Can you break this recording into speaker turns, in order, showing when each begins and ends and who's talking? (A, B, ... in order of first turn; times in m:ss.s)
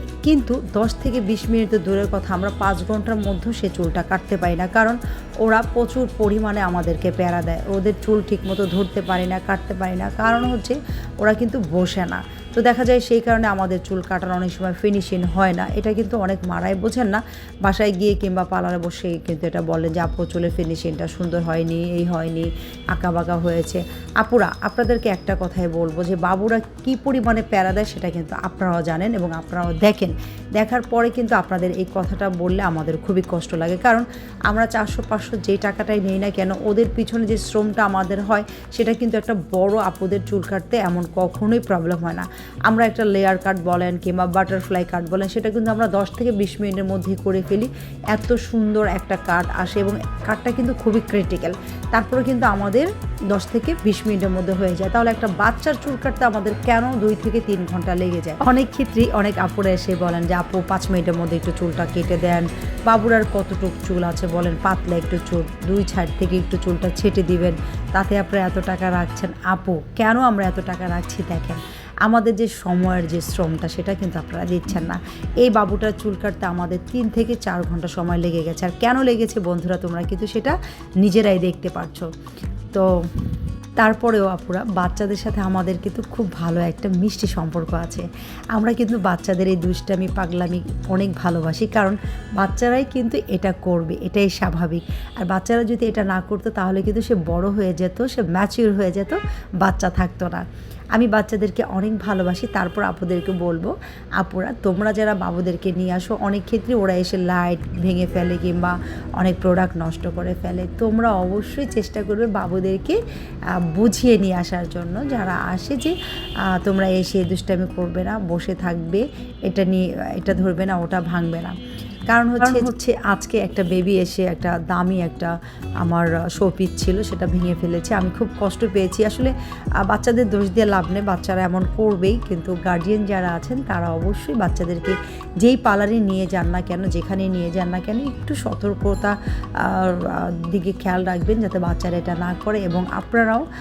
0:00.2-1:22.1 A
1:22.7-1:53.0 A
1:53.6-1:56.0 A
1:56.5-2:01.6 A
2:02.1-2:23.4 A